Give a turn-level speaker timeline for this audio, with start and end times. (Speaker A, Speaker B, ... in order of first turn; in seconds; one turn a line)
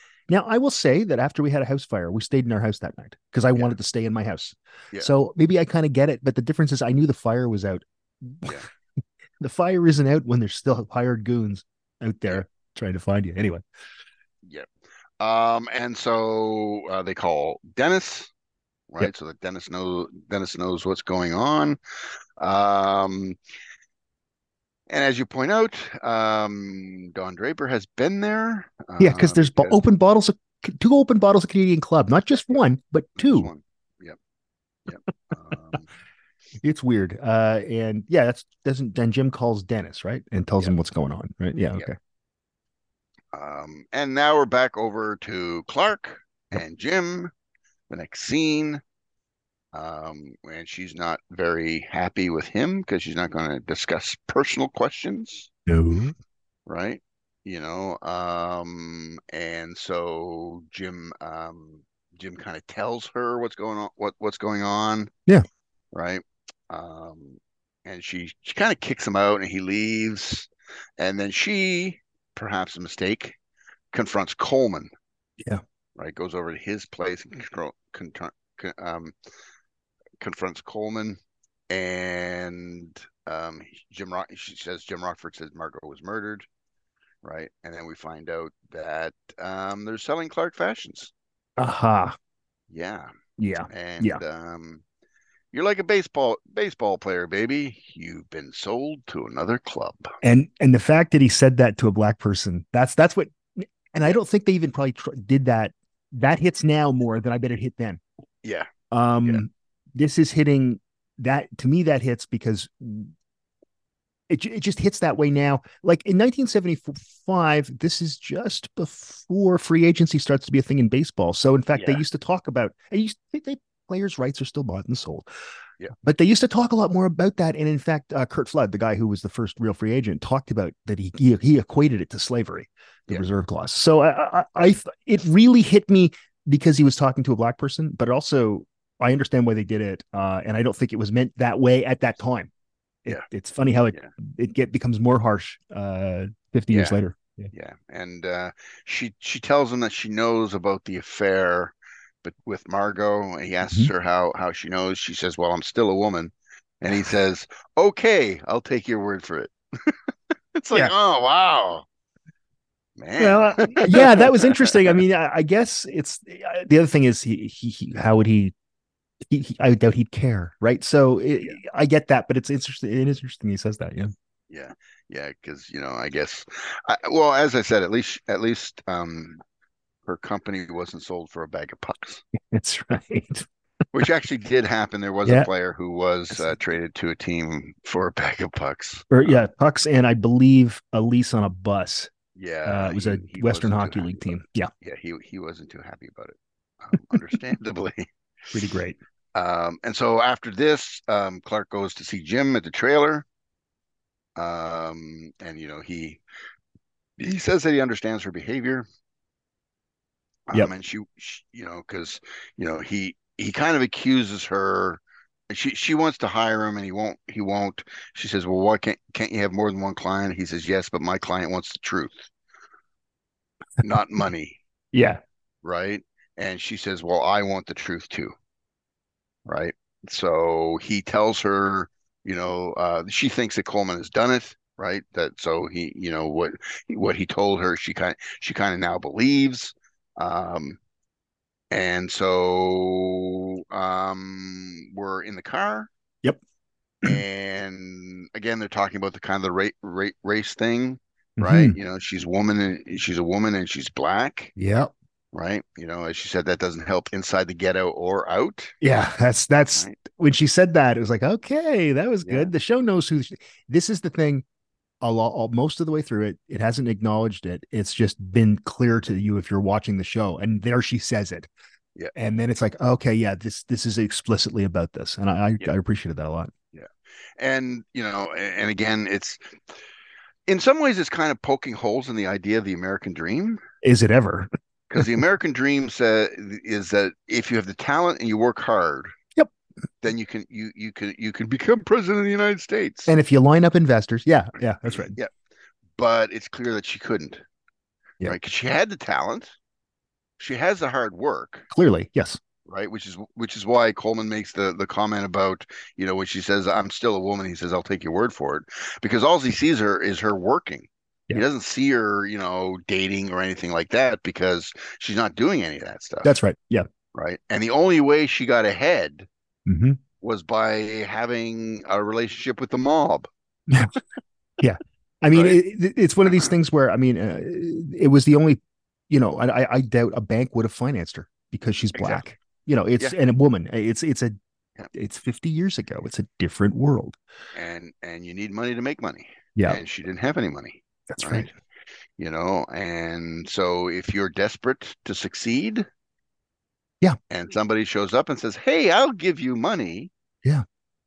Speaker A: 0.3-8.6
Speaker A: 9.4-13.6
Speaker B: 15.2-18.3
Speaker B: 18.9-21.8
Speaker B: 22.4-23.4
Speaker B: 24.9-29.8
Speaker A: 29.0-33.5
Speaker B: 33.2-34.2
Speaker B: 34.9-35.9
Speaker A: 36.6-41.9
Speaker B: 43.3-47.3
Speaker B: 47.9-48.8
Speaker B: 49.7-55.5
Speaker A: 55.7-56.1
Speaker B: 56.7-65.1
Speaker B: 65.9-73.4
Speaker B: 73.9-74.9
Speaker B: 76.0-79.2
Speaker B: 80.2-81.2
Speaker B: 81.7-86.5
Speaker B: 87.2-91.1
Speaker A: 91.6-92.2
Speaker B: 92.7-93.1
Speaker A: 93.4-94.2
Speaker B: 93.7-94.8
Speaker B: 95.5-100.1
Speaker A: 100.2-108.0
Speaker B: 108.4-108.7
Speaker A: 108.9-113.1
Speaker A: 114.3-125.3
Speaker B: 121.7-122.0
Speaker A: 126.0-142.5
Speaker A: 143.1-147.5
Speaker B: 146.7-147.0
Speaker B: 147.5-159.9
Speaker B: 160.6-161.8
Speaker B: 163.0-165.0
Speaker A: 163.2-168.5
Speaker A: 169.3-174.1
Speaker B: 174.5-179.4
Speaker B: 180.1-182.2
Speaker A: 182.5-183.5
Speaker B: 183.9-189.4
Speaker A: 189.1-192.1
Speaker B: 192.4-198.1
Speaker A: 192.7-194.7
Speaker A: 198.5-199.0
Speaker B: 199.3-203.3
Speaker B: 204.4-206.2
Speaker B: 207.2-208.9
Speaker B: 210.5-222.3
Speaker B: 223.8-224.6
Speaker A: 224.9-225.2
Speaker B: 225.6-228.3
Speaker B: 229.5-240.8
Speaker B: 241.7-245.9
Speaker B: 247.0-254.5
Speaker A: 251.4-251.8
Speaker A: 254.6-254.9
Speaker B: 255.3-258.8
Speaker A: 258.8-264.4
Speaker B: 262.2-262.5
Speaker A: 265.0-271.5
Speaker A: 272.1-276.5
Speaker B: 276.7-279.6
Speaker B: 280.5-283.6
Speaker A: 283.8-285.1
Speaker B: 284.9-289.1
Speaker B: 290.0-293.1
Speaker A: 293.1-295.2
Speaker B: 294.9-295.3
Speaker B: 296.0-297.4
Speaker B: 298.3-299.5
Speaker B: 300.4-301.7
Speaker A: 301.7-302.4
Speaker B: 302.7-316.3
Speaker A: 316.2-316.9
Speaker B: 317.1-319.3
Speaker A: 319.7-320.0
Speaker B: 320.2-323.3
Speaker A: 324.6-334.4
Speaker B: 325.3-325.6
Speaker B: 331.9-332.2
Speaker A: 334.9-337.2
Speaker B: 337.6-341.5
Speaker A: 339.6-339.8
Speaker A: 341.1-341.5
Speaker B: 342.2-345.9
Speaker B: 347.3-350.1